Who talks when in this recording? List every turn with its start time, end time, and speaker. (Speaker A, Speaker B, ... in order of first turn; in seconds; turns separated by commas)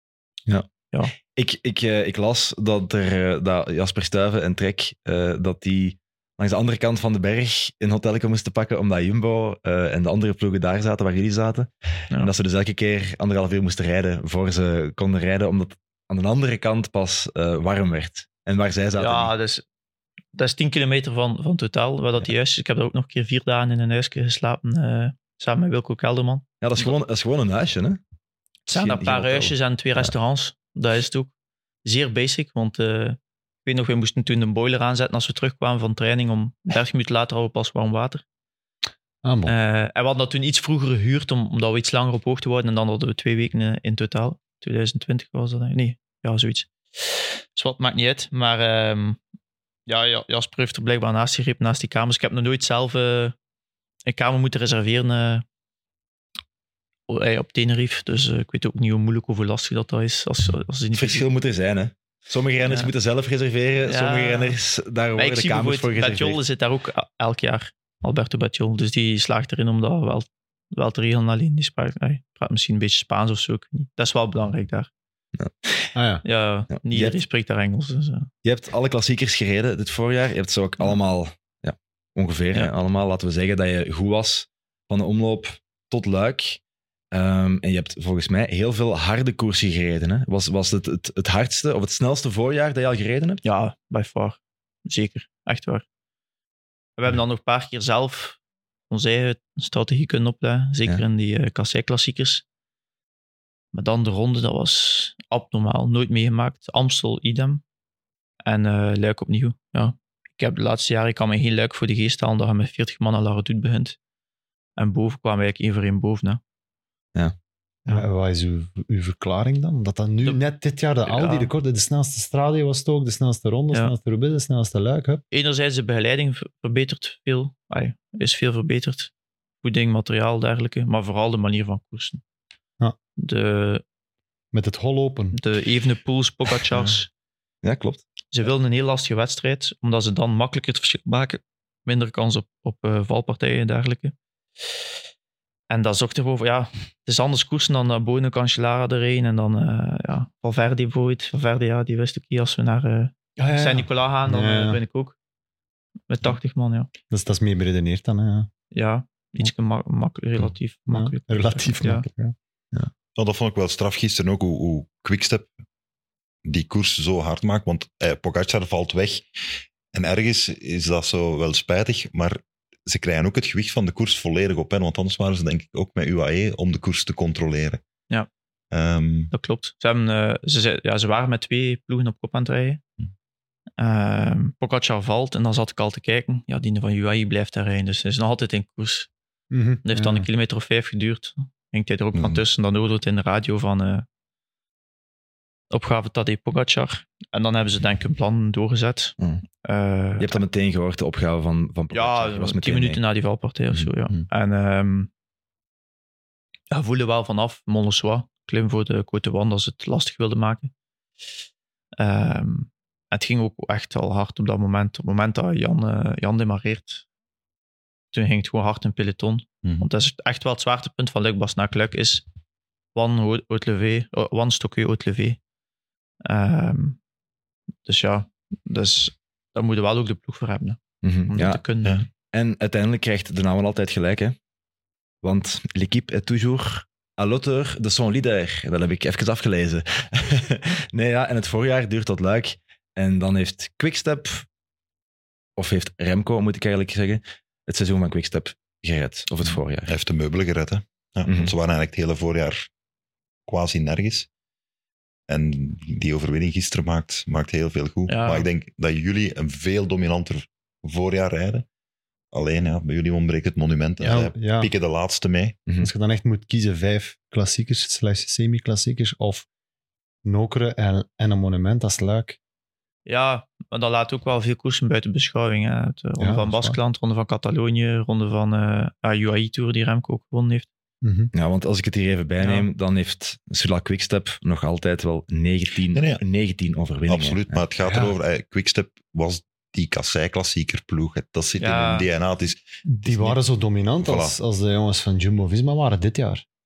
Speaker A: 1.2-19.3, Speaker B: 18.9-19.6, Speaker B: 20.3-26.9, Speaker A: 26.6-28.0, Speaker A: 28.7-30.1, Speaker B: 28.7-31.3, Speaker B: 31.8-38.2, Speaker C: 39.2-39.5, Speaker B: 39.5-49.2, Speaker B: 49.9-53.3, Speaker B: 54.0-55.4, Speaker B: 57.1-61.2, Speaker A: 60.9-66.4, Speaker B: 63.8-64.6, Speaker B: 65.2-74.9, Speaker A: 75.4-75.9, Speaker C: 75.9-76.2, Speaker B: 76.2-78.3, Speaker A: 76.7-77.1, Speaker A: 78.4-86.6, Speaker A: 87.1-93.4, Speaker B: 93.4-95.8, Speaker B: 97.0-98.4, Speaker B: 98.9-102.4, Speaker B: 103.7-107.6, Speaker B: 108.4-114.0, Speaker B: 114.8-116.4, Speaker C: 117.9-125.2, Speaker B: 121.0-121.5, Speaker B: 125.3-129.1, Speaker B: 129.6-132.2, Speaker B: 133.2-133.8, Speaker C: 134.5-135.4, Speaker B: 135.3-137.1, Speaker A: 137.6-138.0, Speaker B: 138.3-144.1, Speaker B: 145.7-155.2, Speaker C: 153.4-154.8, Speaker B: 156.1-156.9, Speaker C: 157.1-158.5, Speaker B: 158.7-162.0, Speaker C: 160.9-162.3, Speaker D: 163.2-165.5, Speaker D: 166.4-177.8, Speaker D: 178.7-179.3, Speaker B: 179.3-182.8, Speaker B: 183.8-189.1, Speaker C: 189.5-190.3, Speaker B: 189.8-194.0, Speaker D: 192.1-192.4, Speaker B: 195.7-200.4, Speaker A: 200.2-203.0, Speaker B: 201.9-205.1, Speaker B: 206.7-210.7, Speaker B: 211.9-217.0, Speaker B: 218.1-222.2, Speaker B: 222.9-225.4, Speaker B: 226.2-227.0, Speaker B: 227.8-232.1, Speaker A: 231.0-231.6, Speaker A: 232.3-234.4, Speaker A: 235.2-244.5, Speaker A: 245.6-249.9, Speaker D: 249.8-252.7, Speaker A: 251.2-251.5, Speaker D: 253.4-254.3, Speaker D: 255.3-261.6, Speaker B: 258.1-258.4, Speaker D: 262.3-265.6, Speaker C: 264.0-264.7, Speaker A: 265.7-265.9, Speaker C: 265.8-269.5, Speaker C: 270.2-272.4, Speaker B: 273.1-280.7, Speaker C: 276.2-276.8, Speaker C: 281.0-281.3, Speaker A: 281.3-287.6, Speaker B: 282.4-282.7, Speaker D: 285.9-286.2, Speaker D: 287.1-293.4, Speaker C: 287.8-288.1, Speaker B: 291.6-292.1, Speaker C: 292.9-296.4, Speaker D: 294.0-294.3